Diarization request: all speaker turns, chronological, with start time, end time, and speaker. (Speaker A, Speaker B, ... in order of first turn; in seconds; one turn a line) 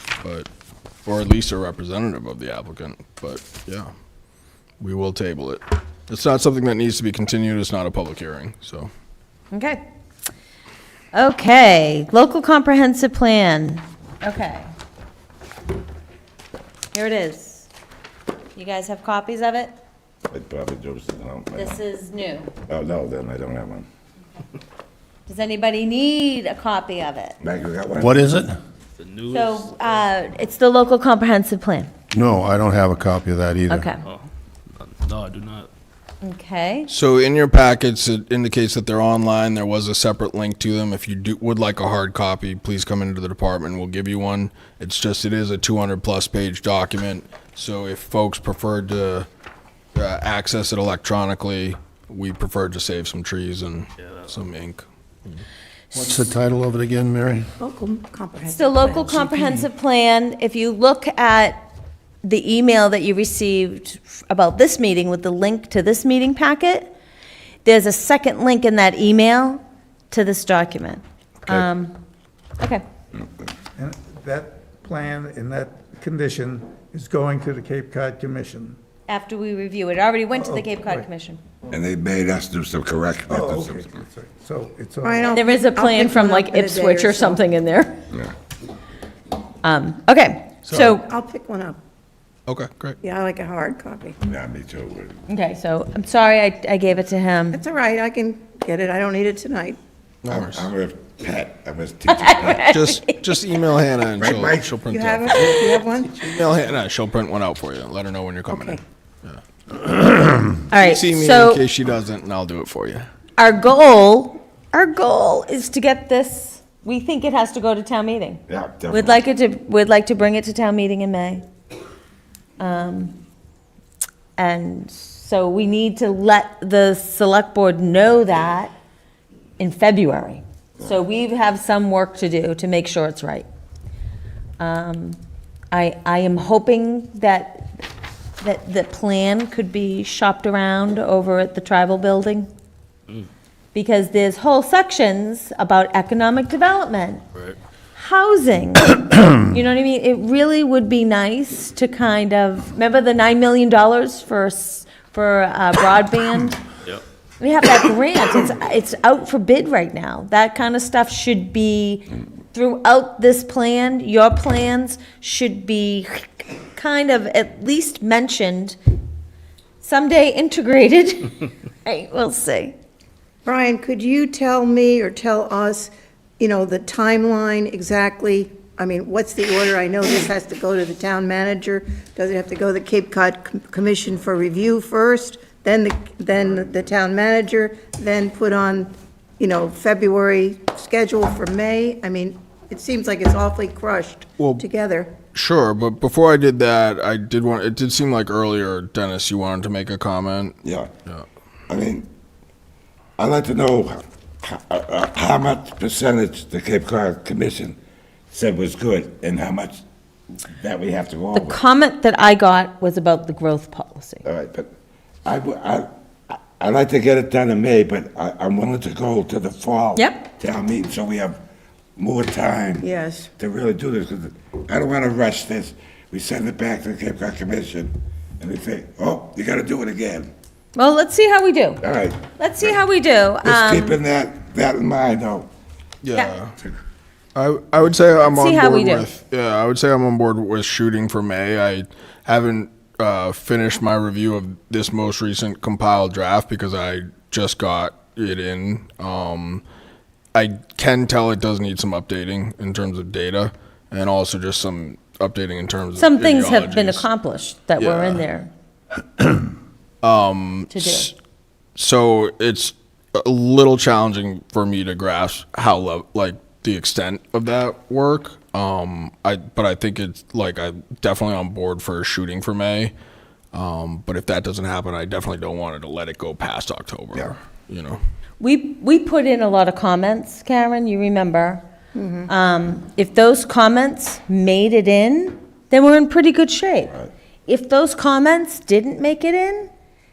Speaker A: 0.2-0.5
Speaker A: 1.1-3.9
Speaker A: 4.8-8.9
Speaker B: 9.5-9.8
Speaker B: 11.1-14.7
Speaker B: 16.9-17.7
Speaker B: 18.6-19.7
Speaker C: 20.3-21.8
Speaker B: 21.6-22.5
Speaker C: 22.7-23.9
Speaker B: 25.3-27.4
Speaker C: 27.4-28.2
Speaker D: 28.0-28.5
Speaker E: 29.0-29.9
Speaker B: 29.3-31.9
Speaker D: 32.1-33.8
Speaker B: 33.7-34.0
Speaker E: 34.0-35.7
Speaker B: 36.2-36.9
Speaker A: 36.9-49.3
Speaker A: 50.0-55.4
Speaker D: 55.9-57.5
Speaker F: 57.6-59.6
Speaker B: 58.5-61.6
Speaker B: 62.2-66.9
Speaker B: 67.6-69.6
Speaker B: 70.1-71.9
Speaker G: 73.8-78.8
Speaker B: 79.1-81.4
Speaker G: 80.3-81.0
Speaker C: 81.7-83.9
Speaker G: 83.3-85.3
Speaker F: 85.0-87.4
Speaker B: 85.3-88.0
Speaker B: 89.6-91.0
Speaker A: 90.7-90.9
Speaker F: 90.8-91.8
Speaker A: 92.5-93.0
Speaker F: 93.0-94.2
Speaker C: 94.2-95.1
Speaker B: 95.3-97.6
Speaker F: 97.5-99.8
Speaker A: 100.2-100.7
Speaker C: 100.3-102.6
Speaker B: 102.2-103.2
Speaker A: 102.5-113.1
Speaker C: 104.2-104.8
Speaker F: 104.9-106.5
Speaker F: 108.5-108.8
Speaker B: 110.7-111.6
Speaker B: 113.4-121.4
Speaker C: 118.5-119.2
Speaker B: 122.6-123.2
Speaker B: 124.4-128.7
Speaker B: 129.6-133.5
Speaker B: 134.6-135.2
Speaker B: 135.7-137.8
Speaker B: 138.4-142.5
Speaker B: 143.7-147.2
Speaker B: 147.9-156.7
Speaker B: 157.4-168.8
Speaker B: 169.8-172.8
Speaker F: 173.4-195.1
Speaker A: 194.4-194.6
Speaker A: 195.3-201.2
Speaker C: 200.6-200.9
Speaker C: 201.7-202.1
Speaker C: 203.2-207.8
Speaker C: 208.3-209.8
Speaker C: 210.5-211.6
Speaker B: 211.3-214.2
Speaker C: 214.2-214.7
Speaker C: 215.2-221.4
Speaker B: 220.0-220.2
Speaker C: 222.0-222.9
Speaker F: 222.8-223.3
Speaker C: 223.4-230.3
Speaker B: 230.8-231.8
Speaker C: 231.8-232.8
Speaker B: 232.4-234.0
Speaker C: 233.4-235.5
Speaker A: 236.0-236.6
Speaker A: 237.3-249.6
Speaker B: 238.3-239.1
Speaker A: 250.3-257.1
Speaker B: 256.0-258.5
Speaker A: 257.8-258.2
Speaker A: 260.0-261.1
Speaker B: 260.7-261.1
Speaker A: 261.8-272.9
Speaker A: 273.5-278.0
Speaker B: 278.4-281.6
Speaker F: 281.9-282.3
Speaker B: 282.3-289.7